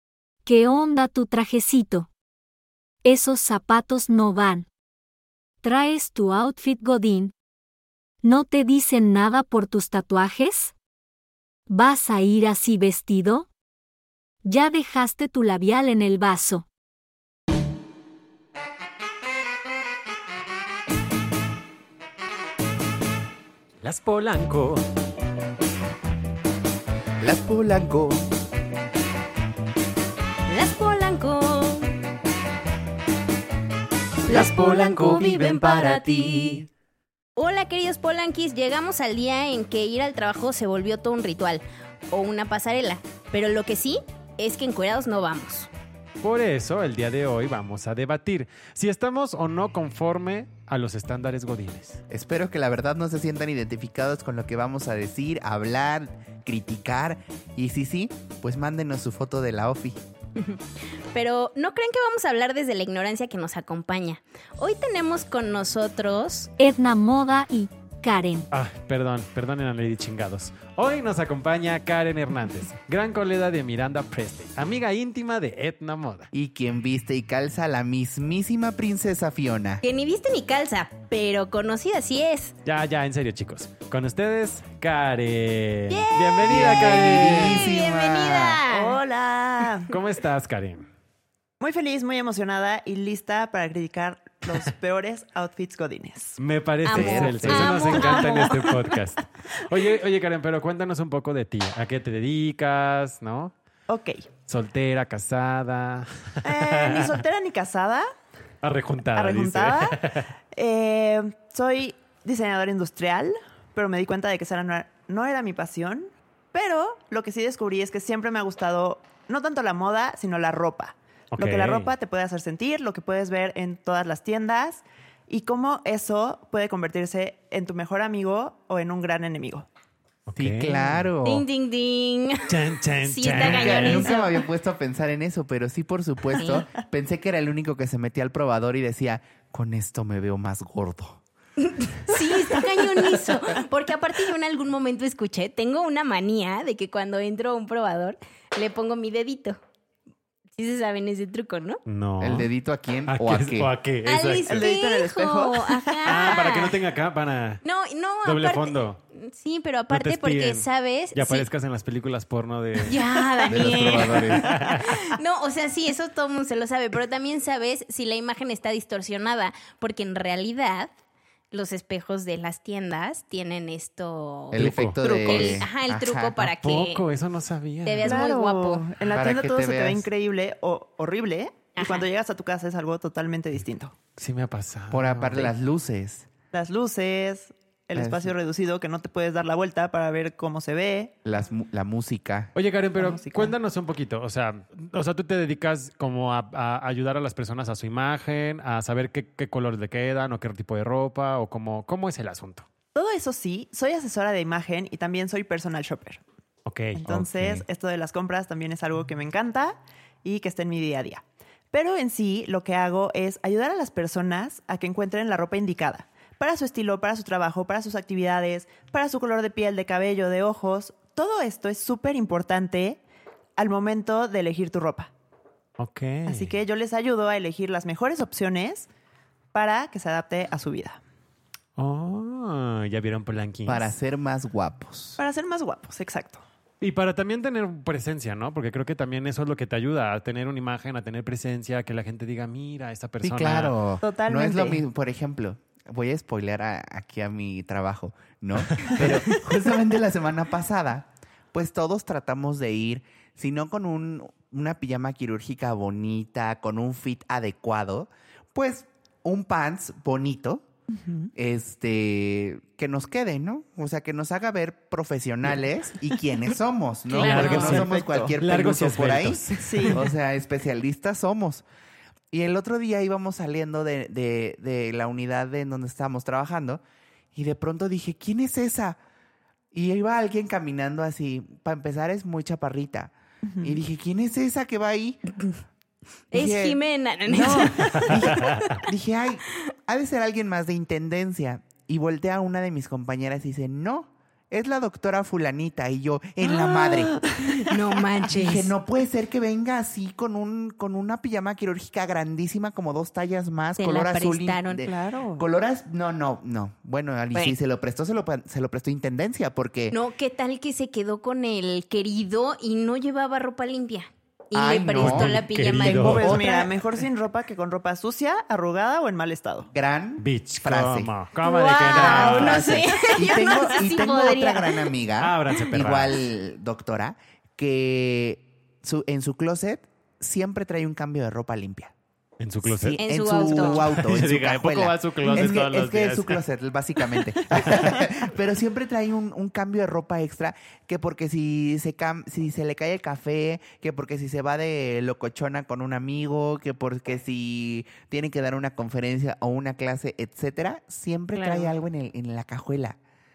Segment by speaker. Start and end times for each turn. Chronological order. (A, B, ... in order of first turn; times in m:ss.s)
0:00.4-0:02.1 A
0:03.0-0:04.7 A
0:05.6-0:07.3 A
0:08.2-0:10.8 A
0:11.7-0:13.5 A
0:14.4-0:16.7 A
0:23.8-0:24.8 B
0:27.2-0:28.2 C
0:30.5-0:31.9 D
0:34.3-0:36.6 D
0:34.3-0:36.7 C
0:37.4-0:45.7 D
0:46.2-0:52.0 B
0:52.1-1:00.0 C
1:00.4-1:00.6 D
1:01.1-1:06.5 D
1:06.6-1:08.5 A
1:08.5-1:16.3 B
1:16.3-1:19.8 C
1:19.8-1:22.5 D
1:22.6-1:27.7 B
1:25.9-1:29.0 D
1:26.4-1:28.6 C
1:28.7-1:29.9 E
1:29.9-1:30.9 B
1:31.6-1:36.4 E
1:36.4-1:43.5 B
1:36.8-1:38.9 D
1:36.9-1:38.0 C
1:37.9-1:38.7 E
1:43.9-1:44.3 E
1:44.5-1:47.2 B
1:46.4-1:48.1 E
1:48.6-1:50.3 B
1:49.2-1:50.0 E
1:50.5-2:09.7 E
2:01.3-2:01.9 B
2:10.3-2:11.1 B
2:10.4-2:11.4 C
2:11.2-2:14.3 D
2:12.5-2:14.1 B
2:13.4-2:21.2 C
2:16.4-2:16.6 D
2:21.6-2:29.6 D
2:30.6-2:31.8 D
2:31.9-2:32.5 B
2:32.2-2:33.7 C
2:33.1-2:34.7 B
2:34.0-2:36.8 D
2:34.5-2:36.5 E
2:36.1-2:37.6 B
2:37.6-2:41.5 D
2:38.2-2:39.0 B
2:39.9-2:43.0 B
2:42.8-2:50.9 D
2:43.5-2:44.6 C
2:43.5-2:45.0 B
2:51.5-2:57.0 D
2:54.5-2:56.4 C
2:54.6-2:55.7 B
2:56.4-2:58.2 B
2:57.8-2:58.8 D
2:58.0-3:04.0 E
2:59.1-3:00.1 C
3:01.8-3:02.1 D
3:04.2-3:05.5 B
3:04.9-3:06.3 C
3:06.5-3:11.2 E
3:08.0-3:08.3 C
3:11.2-3:12.5 C
3:12.6-3:22.6 B
3:13.0-3:13.6 E
3:23.0-3:26.2 E
3:26.7-3:27.6 B
3:27.0-3:43.0 E
3:43.6-3:45.1 E
3:45.8-3:46.6 B
3:46.3-3:48.9 E
3:49.5-3:51.0 E
3:51.8-3:53.9 B
3:53.7-3:55.2 C
3:55.2-3:56.4 E
3:56.8-4:03.8 B
4:03.2-4:20.6 C
4:04.0-4:04.8 E
4:08.7-4:09.2 B
4:21.0-4:21.3 E
4:21.4-4:31.6 C
4:27.1-4:27.9 D
4:27.1-4:30.0 B
4:27.3-4:28.3 E
4:29.6-4:30.0 E
4:32.3-4:36.8 C
4:37.4-4:39.0 C
4:39.7-4:45.2 C
4:43.5-4:43.8 E
4:46.3-4:48.8 D
4:46.3-4:57.2 C
4:56.4-4:57.8 E
4:57.6-4:58.7 D
4:58.3-5:10.0 C
5:03.8-5:04.9 D
5:04.8-5:05.5 E
5:09.9-5:16.2 D
5:14.5-5:16.7 C
5:15.0-5:16.4 B
5:15.7-5:19.7 E
5:19.7-5:21.1 C
5:20.2-5:22.7 B
5:21.4-5:24.9 D
5:21.9-5:31.9 C
5:25.2-5:26.2 B
5:32.4-5:36.4 B
5:32.6-5:53.0 C
5:33.0-5:33.9 D
5:35.3-5:35.6 E
5:37.5-5:38.0 E
5:51.4-5:51.7 D